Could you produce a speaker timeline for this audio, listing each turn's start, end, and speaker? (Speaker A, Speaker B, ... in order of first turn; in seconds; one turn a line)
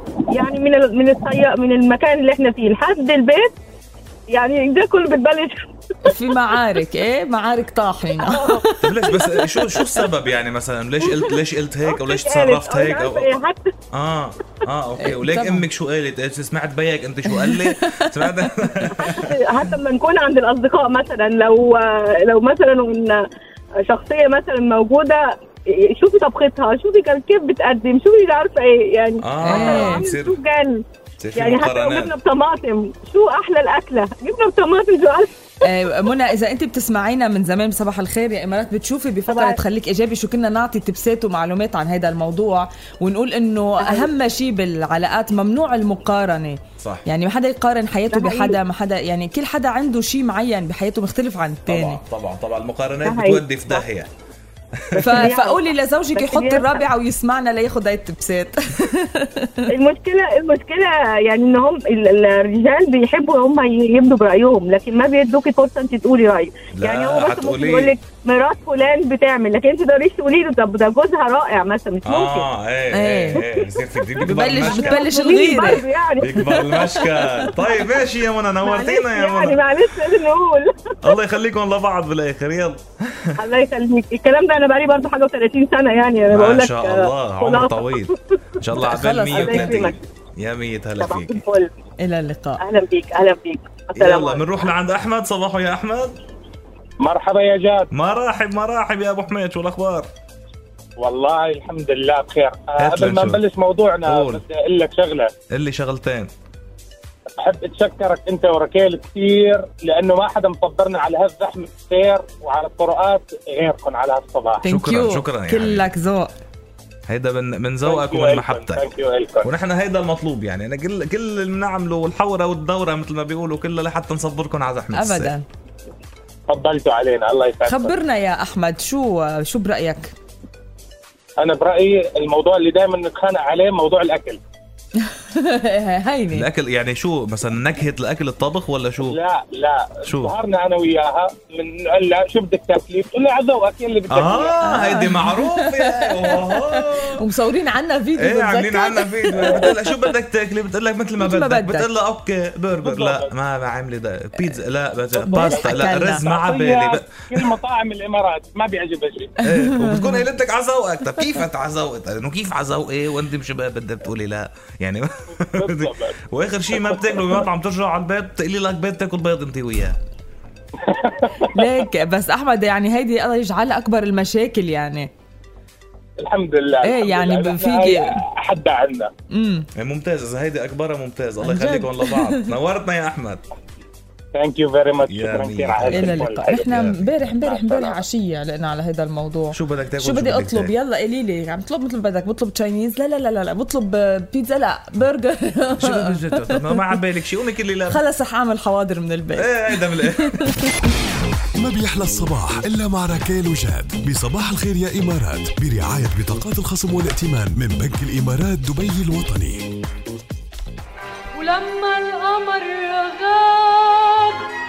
Speaker A: 0.3-3.5
Speaker A: 4.3-5.6
Speaker B: 6.1-8.7
Speaker A: 8.2-8.7
Speaker C: 8.8-13.3
Speaker A: 11.9-13.7
Speaker C: 13.9-19.3
Speaker B: 15.0-15.7
Speaker B: 17.4-18.4
Speaker A: 18.9-23.2
Speaker A: 23.8-30.8
Speaker C: 29.2-30.4
Speaker B: 29.4-30.1
Speaker C: 31.2-32.1
Speaker A: 31.4-35.3
Speaker B: 35.6-52.0
Speaker A: 39.3-39.6
Speaker C: 46.8-47.1
Speaker A: 48.1-48.6
Speaker C: 51.7-54.1
Speaker A: 53.0-53.8
Speaker C: 54.8-55.2
Speaker A: 55.0-56.9
Speaker B: 55.0-59.6
Speaker A: 59.7-72.5
Speaker C: 66.8-67.9
Speaker C: 72.0-75.0
Speaker B: 72.9-73.4
Speaker B: 74.3-75.8
Speaker A: 74.6-77.5
Speaker C: 76.2-79.7
Speaker A: 78.6-81.0
Speaker C: 81.0-83.3
Speaker A: 83.4-88.1
Speaker C: 86.3-91.4
Speaker B: 88.8-89.8
Speaker A: 89.3-90.0
Speaker A: 91.0-91.7
Speaker B: 92.0-92.6
Speaker A: 92.6-94.6
Speaker C: 94.0-96.2
Speaker D: 97.0-97.9
Speaker C: 97.9-100.1
Speaker D: 101.0-105.3
Speaker C: 102.8-103.4
Speaker C: 104.1-104.4
Speaker C: 105.5-106.3
Speaker D: 107.4-114.6
Speaker B: 114.6-116.3
Speaker C: 114.7-115.9
Speaker C: 117.1-118.8
Speaker D: 117.8-119.5
Speaker C: 119.5-125.3
Speaker B: 124.9-125.5
Speaker D: 126.5-128.0
Speaker B: 127.6-130.1
Speaker D: 131.4-134.4
Speaker B: 135.3-136.5
Speaker C: 136.3-139.2
Speaker D: 139.1-144.7
Speaker C: 140.1-140.3
Speaker C: 144.1-147.3
Speaker B: 144.6-145.7
Speaker B: 146.2-150.0
Speaker C: 148.2-157.3
Speaker B: 151.2-151.9
Speaker D: 152.8-153.3
Speaker B: 155.3-156.2
Speaker D: 155.3-155.7
Speaker D: 156.2-159.4
Speaker C: 159.5-170.0
Speaker B: 159.6-160.2
Speaker D: 165.6-166.2
Speaker D: 166.8-167.1
Speaker D: 170.9-171.2
Speaker B: 171.4-175.1
Speaker D: 176.2-179.1
Speaker B: 176.8-178.2
Speaker B: 179.3-179.7
Speaker C: 179.8-183.4
Speaker B: 181.4-182.5
Speaker D: 184.3-186.8
Speaker C: 185.1-187.1
Speaker B: 185.9-196.7
Speaker D: 187.4-188.0
Speaker C: 189.5-190.7
Speaker C: 195.8-198.0
Speaker B: 197.9-200.5
Speaker C: 199.4-200.4
Speaker E: 201.6-209.7
Speaker B: 211.4-213.4